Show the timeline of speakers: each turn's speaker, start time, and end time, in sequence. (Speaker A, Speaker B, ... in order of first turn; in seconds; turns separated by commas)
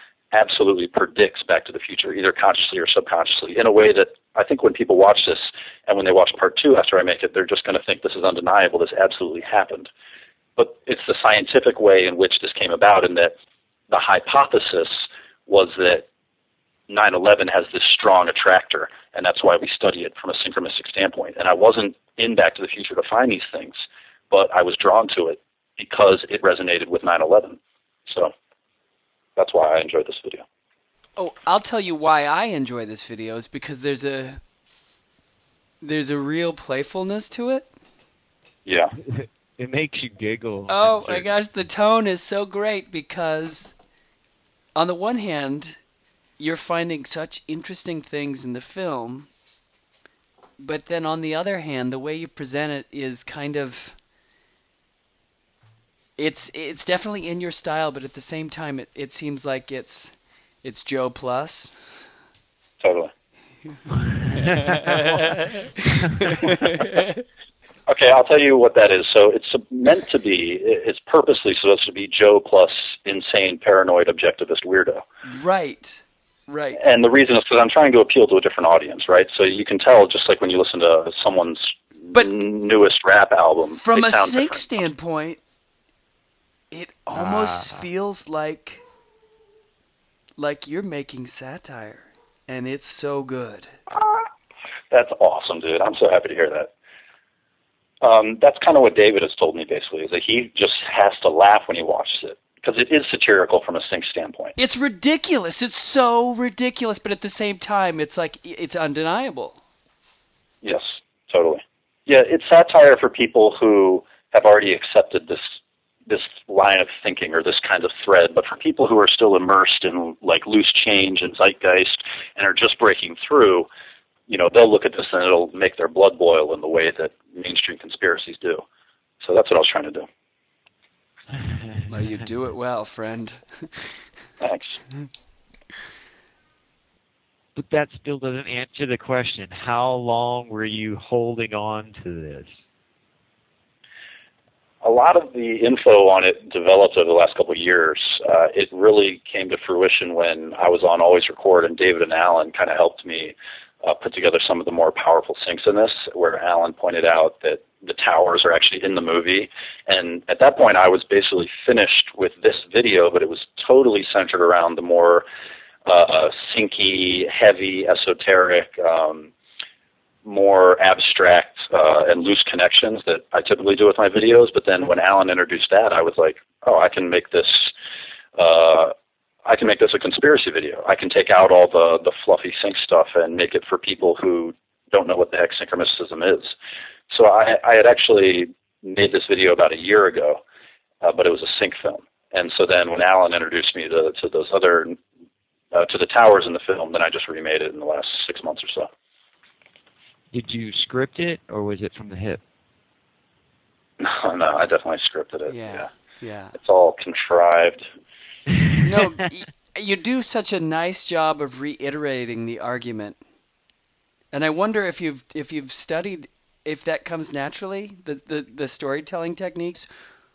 Speaker A: 0.3-9.9, Speaker A: 10.6-13.3, Speaker A: 13.9-16.1, Speaker A: 16.9-23.8, Speaker A: 24.3-28.3, Speaker A: 29.4-30.4, Speaker B: 31.2-34.4, Speaker B: 35.8-37.7, Speaker A: 38.6-38.9, Speaker C: 39.0-41.3, Speaker B: 40.7-43.7, Speaker B: 44.8-45.8, Speaker B: 46.4-49.3, Speaker B: 50.6-54.0, Speaker B: 56.2-62.0, Speaker A: 62.8-63.1, Speaker C: 64.0-66.5, Speaker B: 64.3-67.2, Speaker A: 67.9-75.0, Speaker B: 75.2-76.8, Speaker A: 76.8-84.8, Speaker B: 83.8-85.4, Speaker B: 86.7-88.8, Speaker C: 87.1-87.9, Speaker B: 90.4-93.8, Speaker A: 93.9-94.3, Speaker A: 94.9-96.7, Speaker A: 98.0-104.5, Speaker B: 104.6-109.6, Speaker A: 110.6-123.7, Speaker A: 124.3-128.6, Speaker A: 129.2-130.1, Speaker C: 131.3-132.0, Speaker B: 131.9-134.0, Speaker A: 134.4-134.8, Speaker C: 137.5-142.5, Speaker A: 144.8-165.2, Speaker A: 165.9-169.3, Speaker A: 170.2-177.7, Speaker A: 178.4-178.9, Speaker A: 179.5-186.5, Speaker A: 187.1-190.4, Speaker A: 191.0-195.0, Speaker A: 195.7-198.9, Speaker C: 200.3-202.4, Speaker A: 204.0-205.8, Speaker B: 205.5-206.6, Speaker A: 206.6-207.9, Speaker B: 208.8-213.2, Speaker B: 214.3-219.9